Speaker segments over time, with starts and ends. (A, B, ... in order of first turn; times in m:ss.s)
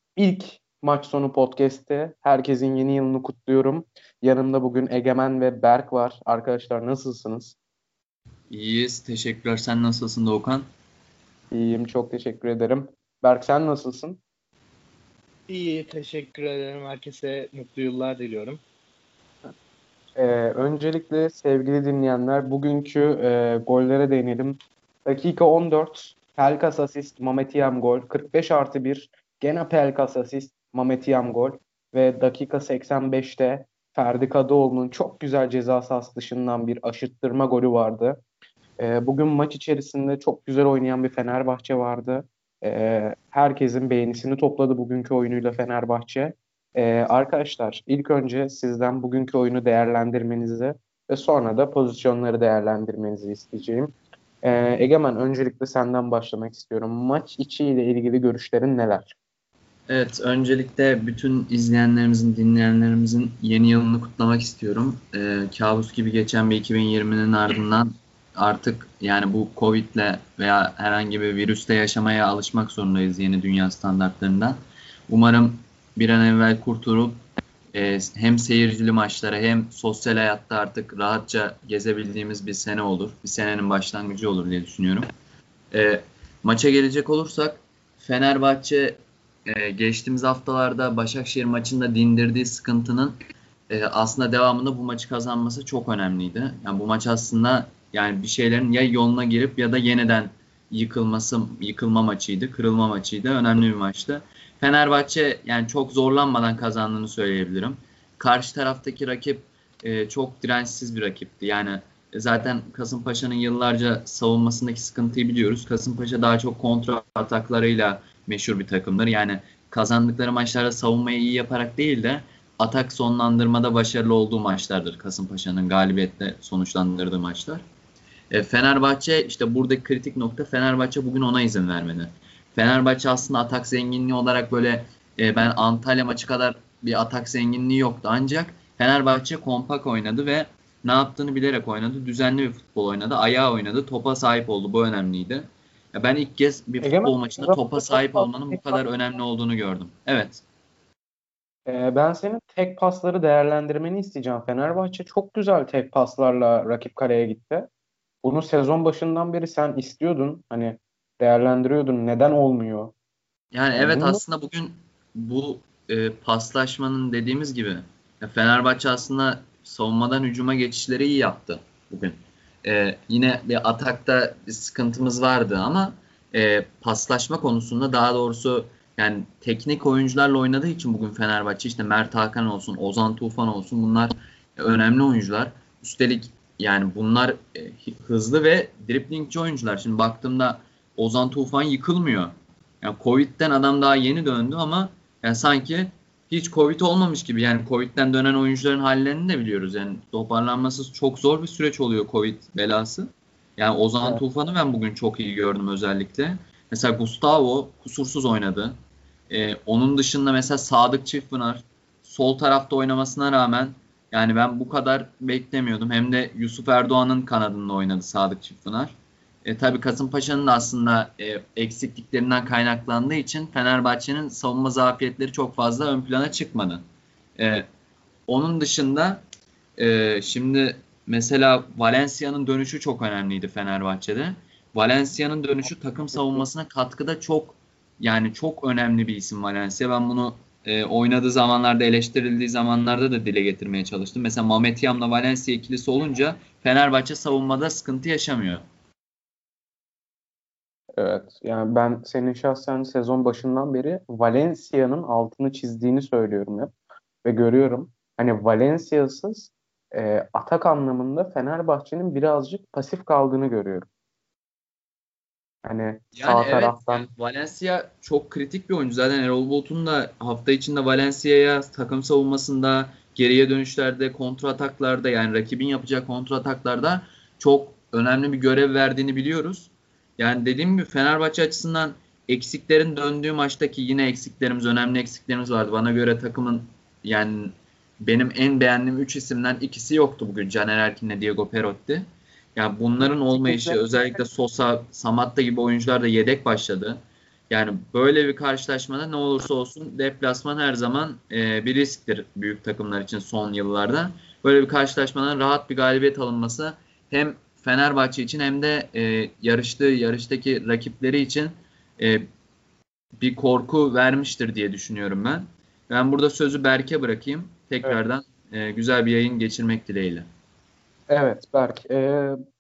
0:00.2-0:07.6 A
0:08.5-0:10.6 B
0:11.5-0:14.2 A
0:15.5-0:18.6 C
0:20.2-0:38.2 A
0:38.8-0:59.2 A
0:59.9-1:14.6 B
1:15.1-1:17.2 B
1:17.7-1:25.1 B
1:25.7-1:33.2 B
1:33.7-2:07.6 B
2:08.3-2:30.4 B
2:26.8-2:28.8 A
2:31.7-2:37.7 A
2:38.2-2:42.9 A
2:43.5-3:28.7 B
2:43.8-2:44.2 A
3:29.3-3:38.9 B
3:39.4-3:46.8 B
3:47.4-3:47.7 B
3:48.3-3:49.2 B
3:49.8-4:08.6 B
4:11.0-4:16.7 A
4:17.2-4:23.9 A
4:25.6-4:27.1 A
4:26.2-4:57.0 B
4:53.0-4:53.8 A
4:57.5-5:12.2 B
5:13.2-5:20.3 B
5:21.1-5:22.4 A